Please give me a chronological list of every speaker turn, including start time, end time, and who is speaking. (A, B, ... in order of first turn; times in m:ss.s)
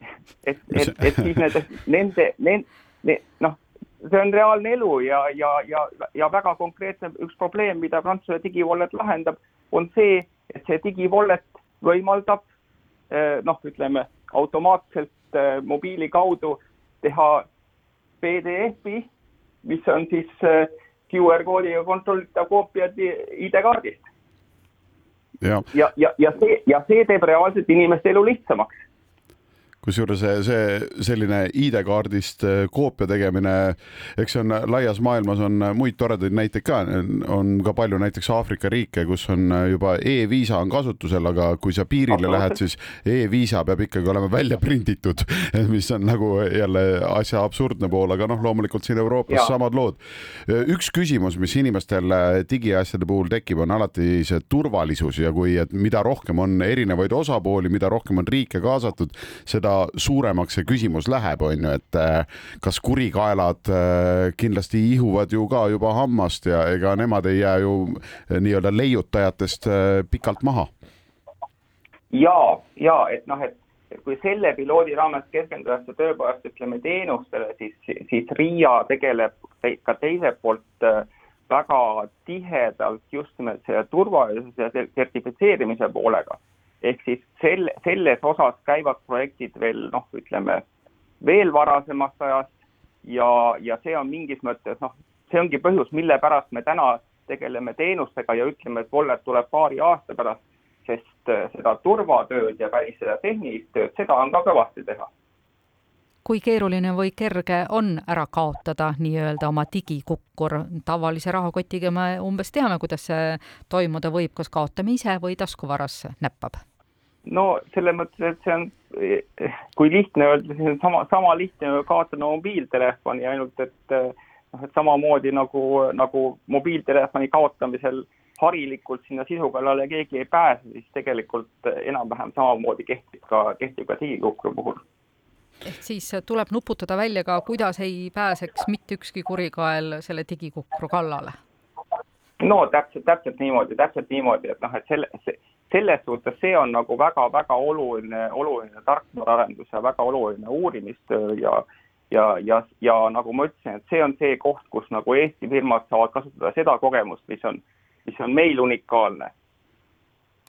0:00.4-0:12.4 A
0:13.1-0:17.4 A
0:18.2-0:19.1 A
0:19.6-0:24.1 A
0:25.4-0:25.7 B
0:25.7-0:28.8 A
0:29.8-1:10.7 B
0:42.1-0:42.5 A
1:12.1-1:30.6 A
1:31.2-1:45.1 A
1:46.2-1:56.6 C
1:57.2-2:14.8 A
2:15.6-2:21.4 C
2:22.4-2:39.3 A